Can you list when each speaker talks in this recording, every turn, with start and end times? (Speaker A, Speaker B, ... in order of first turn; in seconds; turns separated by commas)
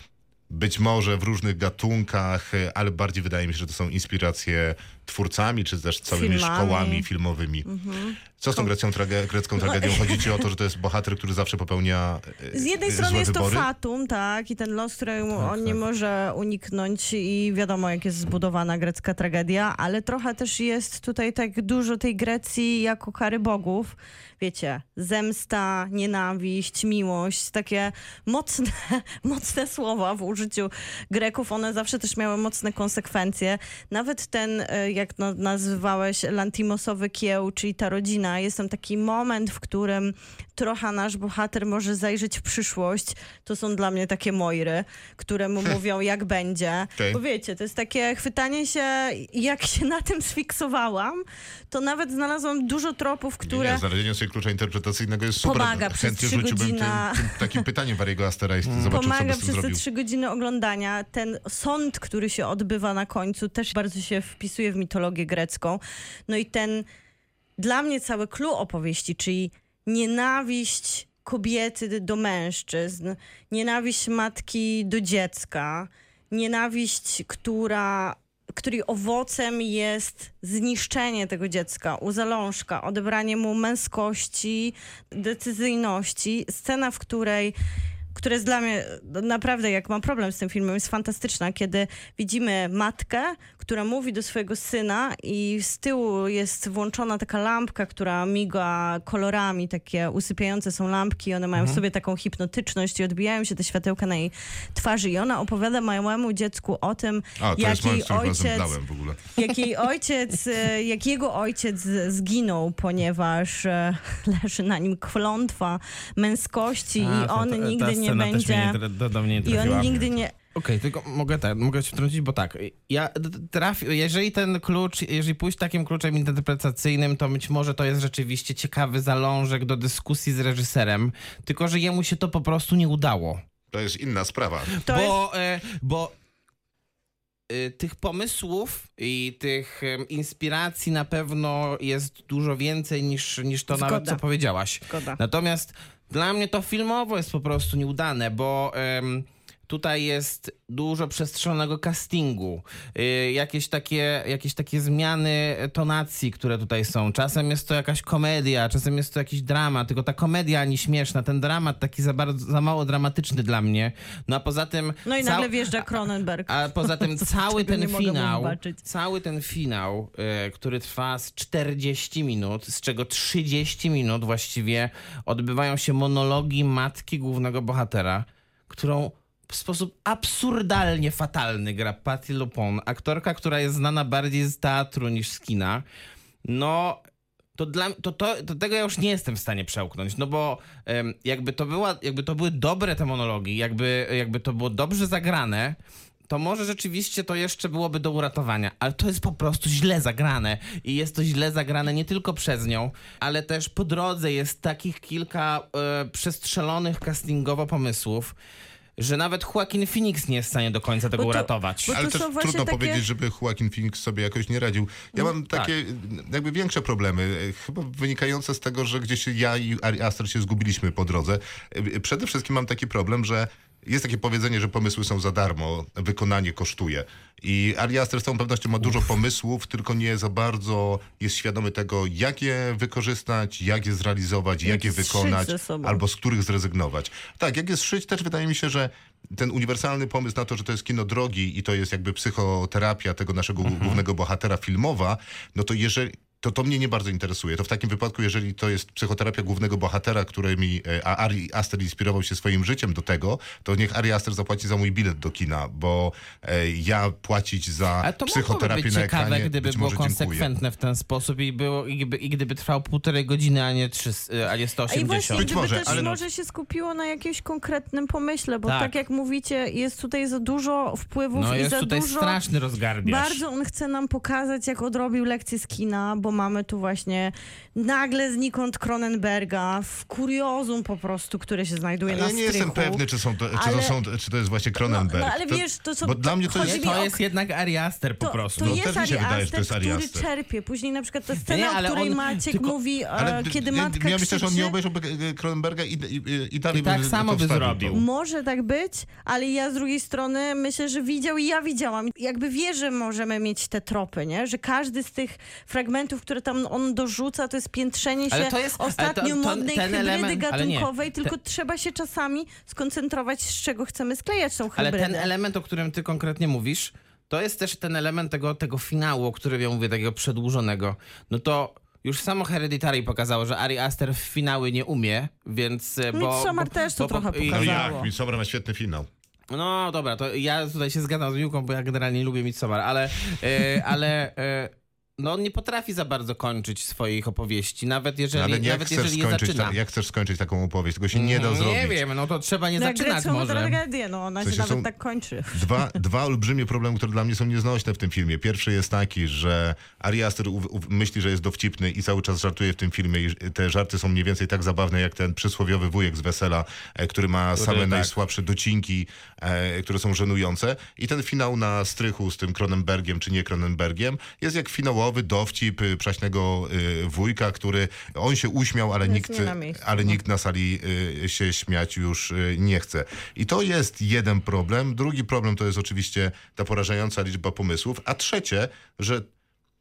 Speaker A: 0.5-7.7, Speaker B: 6.1-7.1, Speaker B: 7.7-8.7, Speaker A: 8.3-13.7, Speaker B: 9.6-10.4, Speaker B: 12.5-53.9, Speaker A: 53.5-59.8, Speaker B: 55.4-57.6, Speaker C: 58.6-59.0, Speaker B: 58.9-66.9, Speaker B: 67.6-87.5, Speaker B: 88.1-108.8, Speaker C: 101.6-101.8, Speaker A: 107.4-109.3, Speaker B: 109.3-118.8, Speaker C: 117.0-120.0, Speaker B: 119.4-120.3, Speaker A: 119.5-120.2, Speaker C: 120.5-133.4, Speaker A: 133.7-134.8, Speaker C: 134.8-136.2, Speaker B: 134.8-135.2, Speaker C: 137.5-165.9, Speaker B: 143.7-144.2, Speaker B: 144.9-145.2, Speaker B: 165.1-168.8, Speaker C: 166.5-185.8, Speaker C: 186.4-187.0, Speaker C: 187.6-195.8, Speaker C: 196.3-208.3, Speaker C: 209.0-212.0, Speaker B: 211.2-213.1, Speaker A: 211.9-260.5, Speaker B: 234.6-236.0, Speaker C: 243.7-244.0, Speaker C: 258.0-266.1, Speaker B: 264.9-272.4, Speaker A: 265.3-266.2, Speaker C: 268.7-268.9, Speaker C: 271.3-273.4, Speaker B: 273.0-284.0, Speaker A: 282.1-286.9, Speaker B: 284.8-287.2, Speaker C: 286.6-288.9, Speaker B: 288.2-294.7, Speaker A: 288.6-290.3, Speaker C: 291.4-292.8, Speaker A: 293.2-298.0, Speaker C: 296.7-298.0, Speaker B: 297.9-315.3, Speaker C: 308.3-311.3, Speaker C: 314.8-328.0, Speaker B: 326.1-328.1, Speaker A: 327.5-329.1, Speaker C: 329.5-339.8, Speaker A: 338.3-342.0, Speaker C: 341.1-343.8, Speaker B: 342.8-345.9, Speaker A: 344.4-344.9, Speaker A: 345.5-379.3, Speaker C: 357.6-358.1, Speaker B: 369.0-370.2